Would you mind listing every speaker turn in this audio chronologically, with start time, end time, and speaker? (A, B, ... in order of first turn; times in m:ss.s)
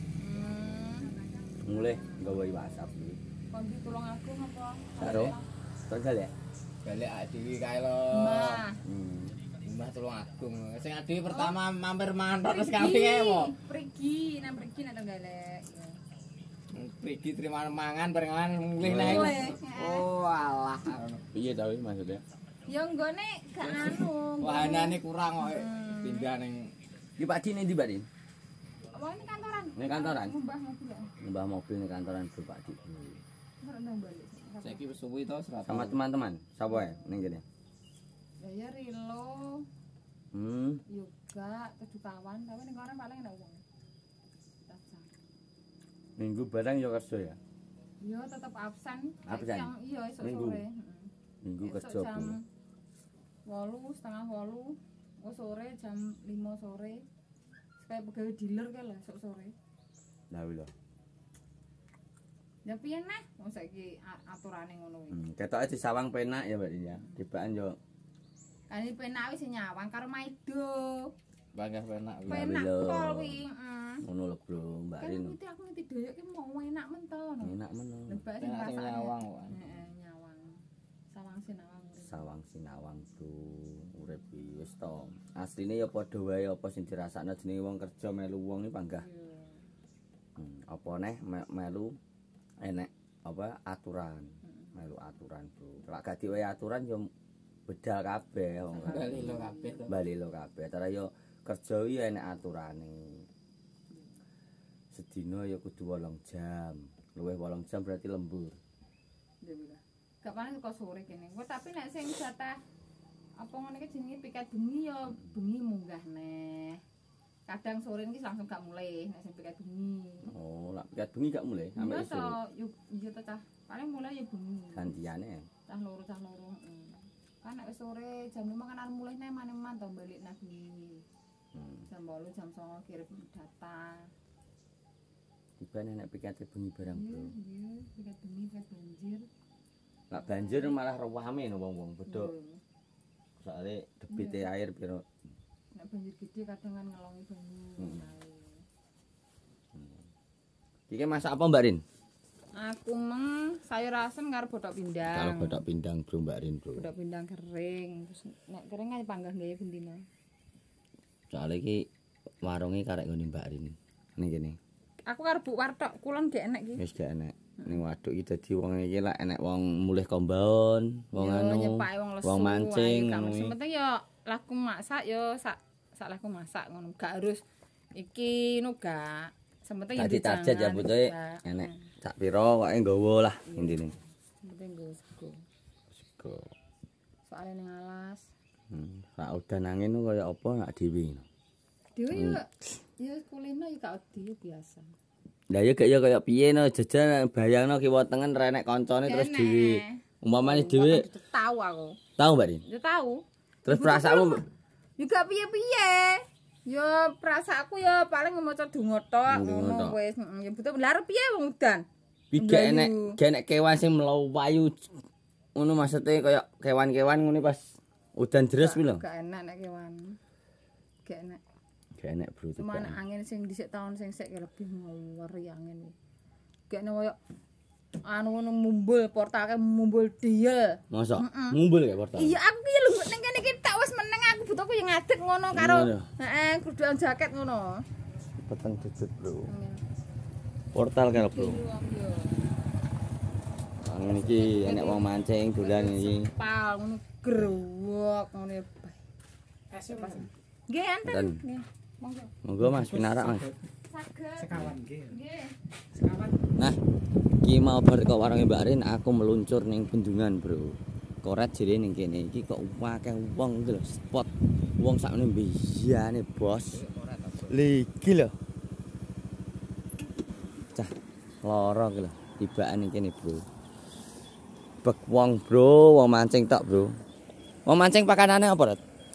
0:00.2-0:01.2 A
0:01.6-0:03.2 B
0:03.5-0:05.4 A
0:05.0-0:05.3 B
0:05.0-0:05.3 C
0:05.9-0:06.3 B
0:06.8-0:08.6 C
0:08.1-0:08.8 A
0:08.8-0:09.4 B
0:09.6-0:13.5 C
0:11.3-0:11.6 A
0:12.4-0:16.0 A
0:16.7-0:21.2 C
0:18.8-0:19.4 B
0:19.0-0:20.1 A
0:21.3-0:22.2 B
0:22.7-0:26.3 A
0:23.6-0:26.8 C
0:27.2-0:28.0 B
0:28.9-0:31.1 A
0:29.8-0:30.3 B
0:31.2-0:33.2 B
0:33.6-0:34.8 A
0:34.6-0:36.0 C
0:35.6-0:37.4 B
0:36.7-0:37.2 A
0:38.4-0:39.6 A
0:40.3-0:40.8 B
0:40.9-0:43.6 A
0:44.7-0:45.1 A
0:46.2-0:47.4 B
0:48.0-0:51.1 A
0:49.2-0:50.6 B
0:51.4-0:52.4 B
0:51.6-0:52.4 A
0:53.5-0:57.0 A
0:57.8-0:59.5 A
1:00.3-1:00.7 B
1:02.6-1:05.2 A
1:05.1-1:07.8 B
1:08.7-1:11.1 A
1:11.5-1:12.4 C
1:12.3-1:13.4 B
1:12.3-1:14.0 A
1:14.0-1:15.3 B
1:15.0-1:17.5 A
1:17.4-1:18.2 B
1:18.1-1:20.6 A
1:18.4-1:19.6 C
1:21.1-1:22.2 A
1:22.0-1:29.1 B
1:29.0-1:29.6 A
1:30.4-1:32.0 B
1:32.6-1:37.1 B
1:37.7-1:39.3 B
1:38.8-1:39.9 A
1:38.8-1:39.9 C
1:39.9-1:43.2 B
1:44.9-1:48.6 B
1:49.4-1:52.6 A
1:53.4-1:56.8 A
1:57.5-2:00.3 A
2:00.3-2:02.4 B
2:01.8-2:04.9 A
2:04.7-2:05.4 B
2:05.7-2:11.0 A
2:11.5-2:11.9 B
2:11.9-2:14.1 A
2:15.6-2:17.3 B
2:16.8-2:19.3 A
2:20.1-2:22.3 B
2:20.2-2:20.7 A
2:22.1-2:22.6 A
2:23.4-2:25.0 B
2:24.1-2:24.5 A
2:25.7-2:28.6 A
2:27.8-2:28.0 B
2:29.7-2:30.0 B
2:30.9-2:31.8 B
2:32.6-2:35.6 A
2:35.1-2:36.9 B
2:36.7-2:40.0 A
2:41.3-2:41.8 B
2:42.4-2:44.6 B
2:45.1-2:46.8 A
2:46.8-2:53.5 B
2:51.2-2:57.4 A
2:58.0-3:01.8 A
3:00.0-3:03.9 B
3:03.5-3:05.4 A
3:06.0-3:06.5 B
3:07.3-3:08.3 A
3:08.7-3:11.2 B
3:12.0-3:14.8 A
3:12.1-3:12.4 B
3:15.5-3:21.1 B
3:19.1-3:22.0 A
3:22.2-3:22.6 B
3:22.6-3:24.4 A
3:23.6-3:24.4 B
3:25.0-3:33.1 A
3:29.3-3:30.0 B
3:32.3-3:34.9 B
3:35.6-3:37.6 B
3:38.2-3:39.0 B
3:38.6-3:40.2 A
3:41.0-3:41.4 A
3:42.0-3:43.0 B
3:42.6-3:45.9 A
3:46.7-3:47.2 A
3:48.0-3:51.6 A
3:50.9-3:52.4 B
3:52.2-3:57.8 A
3:55.5-3:56.1 B
3:58.4-3:59.5 B
3:59.5-3:59.8 A
4:00.7-4:01.6 B
4:01.1-4:02.5 A
4:03.8-4:06.3 B
4:04.1-4:09.0 A
4:09.7-4:12.3 A
4:11.0-4:11.4 B
4:12.4-4:13.5 B
4:13.9-4:16.1 A
4:14.5-4:14.9 B
4:17.4-4:26.8 B
4:26.7-4:27.5 C
4:27.5-4:28.3 B
4:31.4-4:33.4 B
4:34.8-4:36.9 B
4:37.6-4:38.8 B